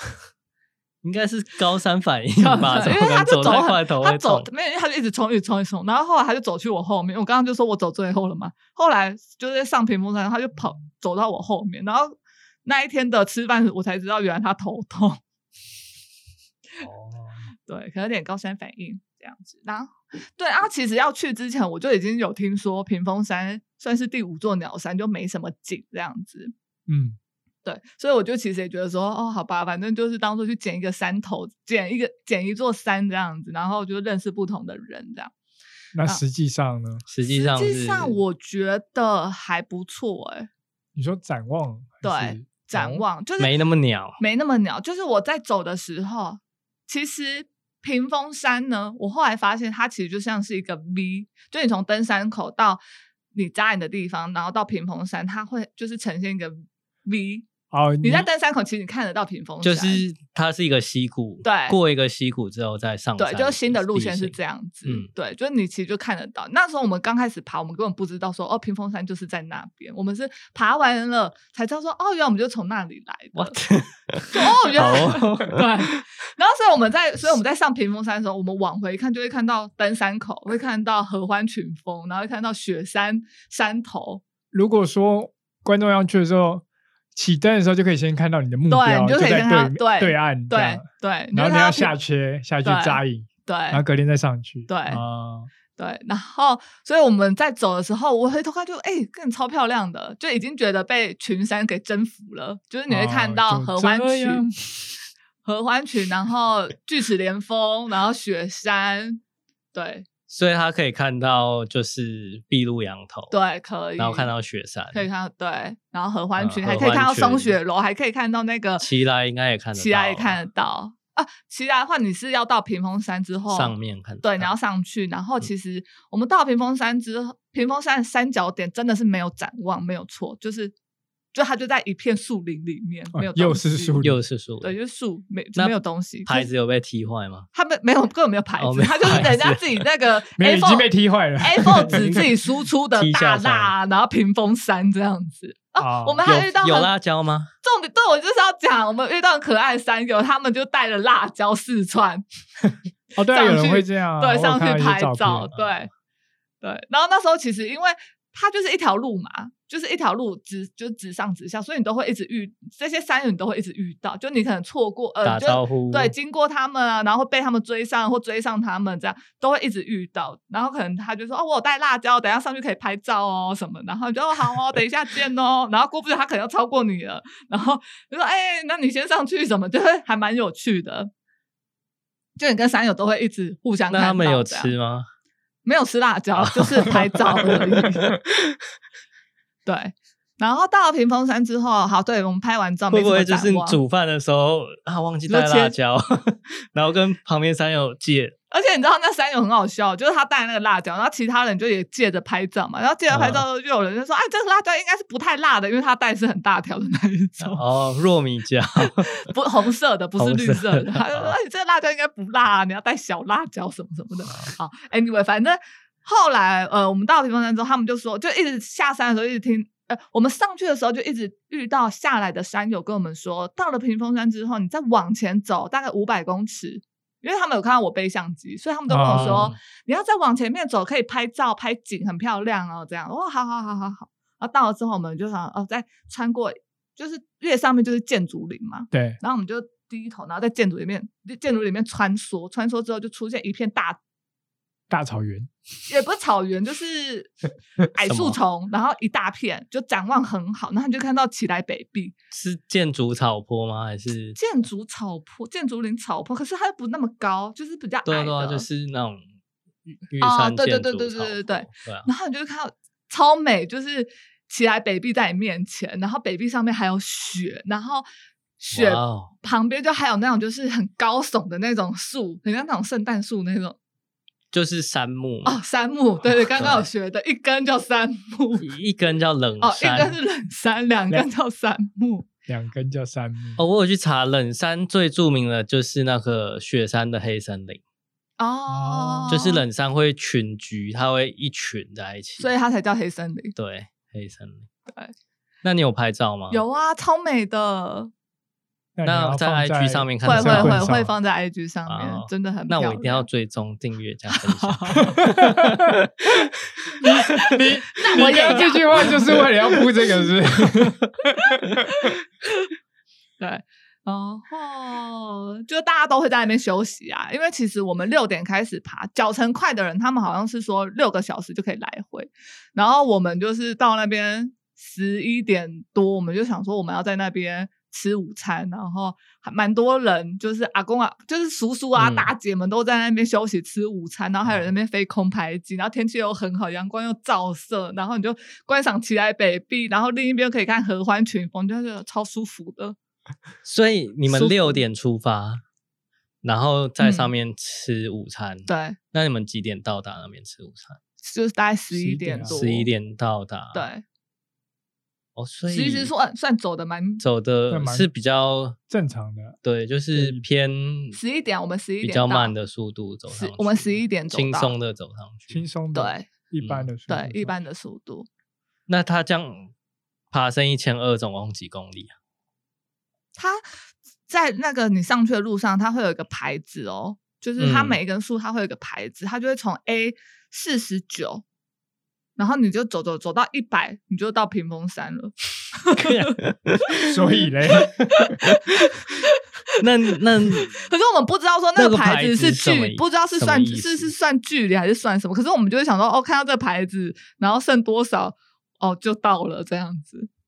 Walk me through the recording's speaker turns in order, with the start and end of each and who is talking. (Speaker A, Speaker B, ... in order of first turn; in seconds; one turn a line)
Speaker A: 1.0-4.5
Speaker B: 2.4-15.2
Speaker A: 16.8-17.4
Speaker B: 17.6-26.5
Speaker C: 26.9-27.2
Speaker B: 27.6-35.3
Speaker C: 35.9-37.0
Speaker A: 37.1-38.2
Speaker B: 37.2-40.5
Speaker C: 40.9-43.0
Speaker B: 42.0-43.5
Speaker A: 43.4-44.2
Speaker B: 44.2-52.8
Speaker B: 53.3-57.5
Speaker C: 57.7-58.3
Speaker B: 58.0-60.0
Speaker A: 59.6-65.1
Speaker B: 61.4-61.8
Speaker B: 63.2-73.6
Speaker A: 73.3-76.0
Speaker B: 74.3-84.2
Speaker C: 84.5-95.5
Speaker B: 88.7-91.9
Speaker B: 92.6-93.8
Speaker B: 94.7-95.0
Speaker B: 95.8-104.4
Speaker C: 102.9-104.9
Speaker B: 105.4-109.2
Speaker B: 109.7-110.1
Speaker A: 110.3-113.4
Speaker B: 113.3-114.3
Speaker A: 114.0-115.1
Speaker B: 114.9-118.9
Speaker A: 116.4-117.6
Speaker A: 118.8-120.4
Speaker B: 119.8-130.7
Speaker A: 123.5-124.5
Speaker B: 131.3-134.0
Speaker C: 133.1-134.2
Speaker A: 134.0-134.7
Speaker B: 134.6-136.5
Speaker A: 135.6-137.5
Speaker B: 137.5-146.9
Speaker A: 138.6-139.8
Speaker C: 140.4-142.2
Speaker A: 141.8-142.4
Speaker A: 142.9-143.7
Speaker C: 145.8-146.2
Speaker A: 146.2-147.5
Speaker B: 147.6-152.2
Speaker C: 153.2-155.5
Speaker B: 153.3-155.9
Speaker A: 155.5-155.8
Speaker B: 156.6-181.1
Speaker A: 165.2-166.1
Speaker B: 182.4-184.7
Speaker A: 183.9-185.1
Speaker B: 185.6-188.1
Speaker A: 186.4-188.6
Speaker B: 189.7-193.8
Speaker A: 192.9-198.3
Speaker B: 195.3-195.7
Speaker B: 198.5-207.6
Speaker A: 203.1-203.4
Speaker A: 207.4-209.3
Speaker B: 208.9-244.0
Speaker A: 210.2-211.4
Speaker A: 214.3-214.5
Speaker C: 228.9-229.5
Speaker A: 229.1-229.6
Speaker C: 238.9-239.2
Speaker C: 244.9-245.5
Speaker B: 245.9-247.3
Speaker B: 247.9-252.1
Speaker A: 248.1-248.4
Speaker A: 252.3-254.4
Speaker B: 254.4-258.7
Speaker A: 258.1-259.2
Speaker A: 259.9-262.1
Speaker B: 260.2-268.1
Speaker B: 268.6-273.8
Speaker A: 268.7-269.3
Speaker A: 274.5-275.6
Speaker B: 275.4-278.7
Speaker A: 276.5-276.9
Speaker A: 278.6-280.2
Speaker B: 279.6-282.2
Speaker C: 282.5-283.6
Speaker A: 283.6-287.8
Speaker B: 288.4-289.6
Speaker C: 288.7-289.4
Speaker A: 289.3-292.5
Speaker B: 292.4-293.5
Speaker A: 293.6-294.7
Speaker A: 295.6-296.6
Speaker B: 296.5-298.1
Speaker C: 298.9-301.1
Speaker A: 299.1-300.9
Speaker B: 300.2-303.2
Speaker A: 301.9-306.5
Speaker B: 304.3-305.2
Speaker C: 305.2-305.9
Speaker C: 307.0-311.5
Speaker A: 307.1-307.5
Speaker B: 307.2-310.3
Speaker A: 308.0-309.2
Speaker B: 311.4-312.7
Speaker B: 313.4-342.9
Speaker A: 331.9-332.3
Speaker A: 343.6-345.6
Speaker B: 344.4-344.7
Speaker A: 346.4-351.0
Speaker B: 347.0-347.3
Speaker B: 348.6-349.0
Speaker B: 351.2-352.9
Speaker C: 351.9-352.6
Speaker A: 352.5-353.8
Speaker B: 353.7-354.0
Speaker A: 355.4-356.1
Speaker B: 355.7-357.2
Speaker A: 357.2-358.8
Speaker C: 357.7-358.1
Speaker C: 358.9-359.6
Speaker A: 359.6-361.2
Speaker C: 360.1-360.4
Speaker B: 361.1-362.5
Speaker A: 362.0-365.6
Speaker B: 363.3-364.7
Speaker C: 365.5-367.6
Speaker B: 365.9-366.3
Speaker A: 366.6-366.9
Speaker B: 367.1-368.3
Speaker A: 368.9-369.7
Speaker A: 370.3-372.1
Speaker B: 373.4-373.6
Speaker B: 374.3-381.4
Speaker A: 377.6-378.0
Speaker B: 382.4-386.1
Speaker A: 385.9-387.2
Speaker C: 387.1-387.9
Speaker A: 387.8-388.9
Speaker B: 389.0-389.3
Speaker A: 389.8-390.8
Speaker B: 390.5-400.3
Speaker A: 391.8-394.1